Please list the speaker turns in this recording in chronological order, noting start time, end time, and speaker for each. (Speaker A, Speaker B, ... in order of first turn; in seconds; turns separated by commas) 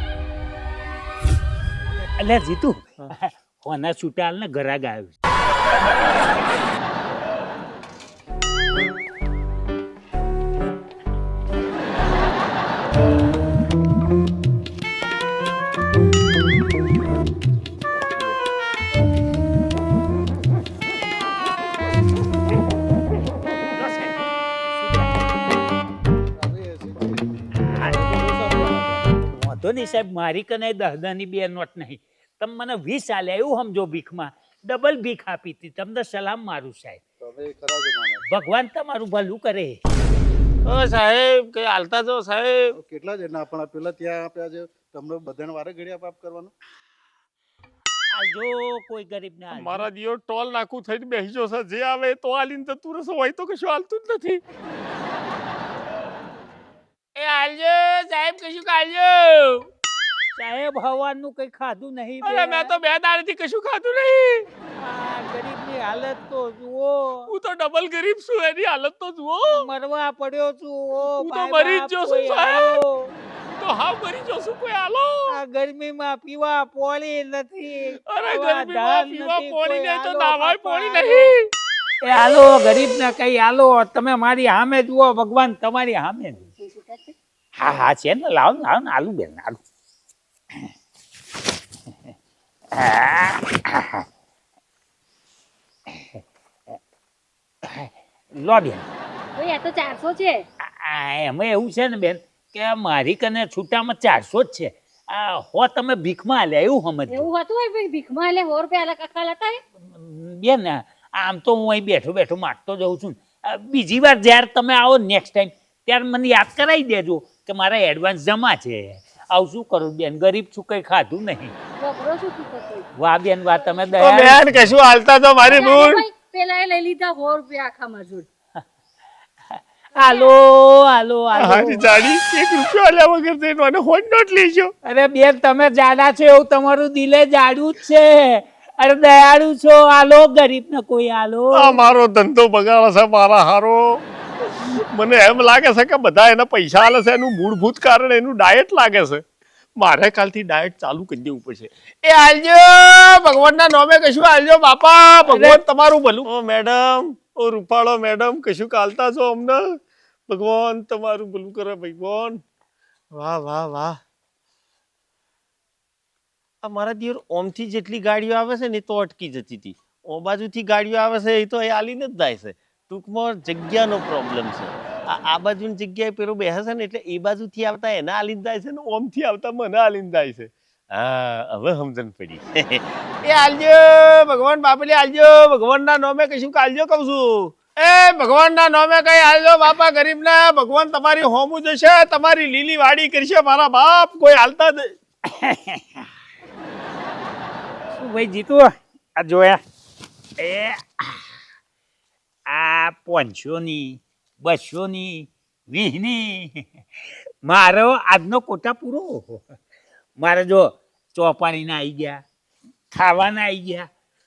Speaker A: 2.0-5.1, Speaker A: 23.7-25.3, Speaker B: 26.4-28.6, Speaker A: 27.7-37.0, Speaker B: 37.2-38.2, Speaker A: 38.3-39.8, Speaker C: 40.6-42.8, Speaker B: 42.7-46.5, Speaker A: 48.1-49.9, Speaker C: 49.5-54.4, Speaker C: 57.1-59.7, Speaker A: 60.3-62.8, Speaker C: 62.2-64.5, Speaker A: 64.8-67.3, Speaker C: 67.3-69.7, Speaker A: 69.5-73.1, Speaker C: 71.1-72.8, Speaker C: 73.5-75.3, Speaker A: 75.3-81.2, Speaker C: 78.0-81.5, Speaker A: 82.0-86.5, Speaker A: 87.6-89.6, Speaker A: 92.7-94.0, Speaker A: 95.9-96.2, Speaker A: 97.6-98.9, Speaker D: 99.3-100.4, Speaker A: 100.6-107.3, Speaker D: 107.1-109.6, Speaker A: 109.8-121.5, Speaker D: 121.8-122.9, Speaker A: 123.0-124.5, Speaker C: 124.0-126.0, Speaker D: 125.5-128.3, Speaker A: 129.5-131.9, Speaker D: 130.0-130.3, Speaker C: 131.3-134.7, Speaker A: 134.8-141.8, Speaker C: 141.5-149.2, Speaker C: 149.8-162.4, Speaker C: 163.1-164.0, Speaker C: 166.6-194.9, Speaker A: 195.2-196.1, Speaker A: 198.0-199.6, Speaker A: 200.4-201.3, Speaker A: 202.5-206.7, Speaker A: 207.4-209.6, Speaker A: 210.2-212.2, Speaker A: 212.9-213.9